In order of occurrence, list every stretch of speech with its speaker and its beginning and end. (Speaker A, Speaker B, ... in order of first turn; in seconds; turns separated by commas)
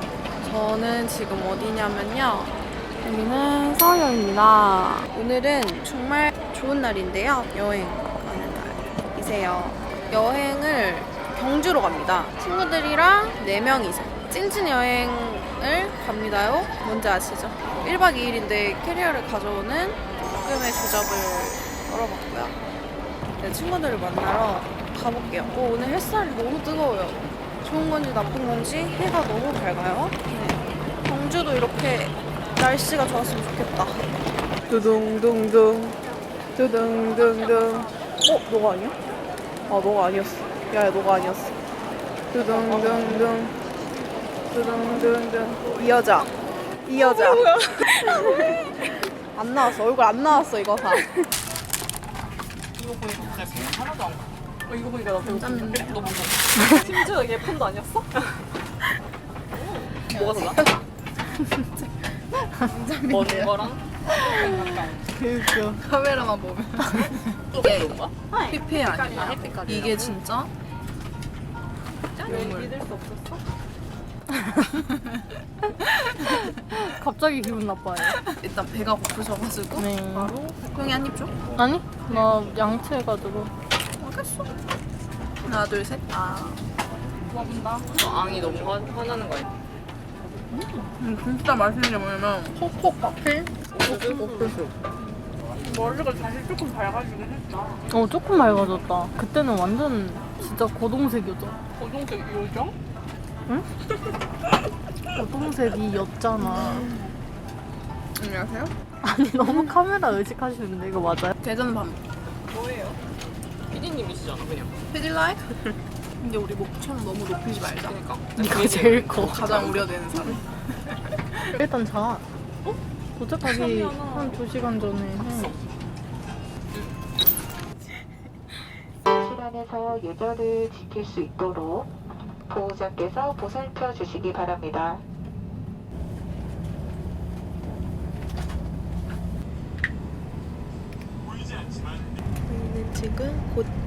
Speaker A: 0.4-22.6, Speaker A: 23.4-34.1, Speaker A: 34.7-36.0, Speaker A: 36.5-39.0, Speaker A: 39.7-41.5, Speaker A: 42.3-43.5, Speaker B: 42.5-43.2, Speaker A: 44.5-46.3, Speaker A: 46.8-48.6, Speaker B: 47.0-48.5, Speaker A: 49.3-51.3, Speaker B: 52.8-58.5, Speaker A: 55.2-56.1, Speaker B: 59.5-60.7, Speaker A: 60.0-65.0, Speaker B: 63.1-65.1, Speaker C: 65.1-65.8, Speaker A: 65.5-70.5, Speaker B: 67.5-68.2, Speaker B: 68.9-70.1, Speaker B: 72.2-73.4, Speaker A: 72.2-72.7, Speaker C: 74.3-74.8, Speaker C: 76.2-78.2, Speaker A: 78.4-79.9, Speaker C: 79.8-80.3, Speaker B: 80.2-80.6, Speaker A: 80.7-81.3, Speaker C: 81.5-83.5, Speaker B: 84.1-84.5, Speaker A: 85.4-86.6, Speaker B: 87.3-89.5, Speaker A: 91.0-92.5, Speaker C: 92.5-94.6, Speaker B: 93.7-94.8, Speaker B: 95.6-97.8, Speaker C: 97.9-101.6, Speaker B: 101.8-102.8, Speaker C: 105.1-106.8, Speaker A: 106.4-107.2, Speaker A: 108.2-108.7, Speaker C: 109.0-111.3, Speaker A: 109.4-109.7, Speaker A: 111.4-112.0, Speaker B: 112.5-113.0, Speaker B: 113.7-114.8, Speaker A: 114.9-118.0, Speaker B: 117.8-119.8, Speaker C: 118.3-119.6, Speaker A: 119.2-120.4, Speaker C: 121.5-122.2, Speaker C: 123.1-125.5, Speaker B: 123.4-124.4, Speaker B: 125.3-125.5, Speaker D: 129.1-131.9, Speaker D: 132.4-135.0, Speaker A: 142.4-143.7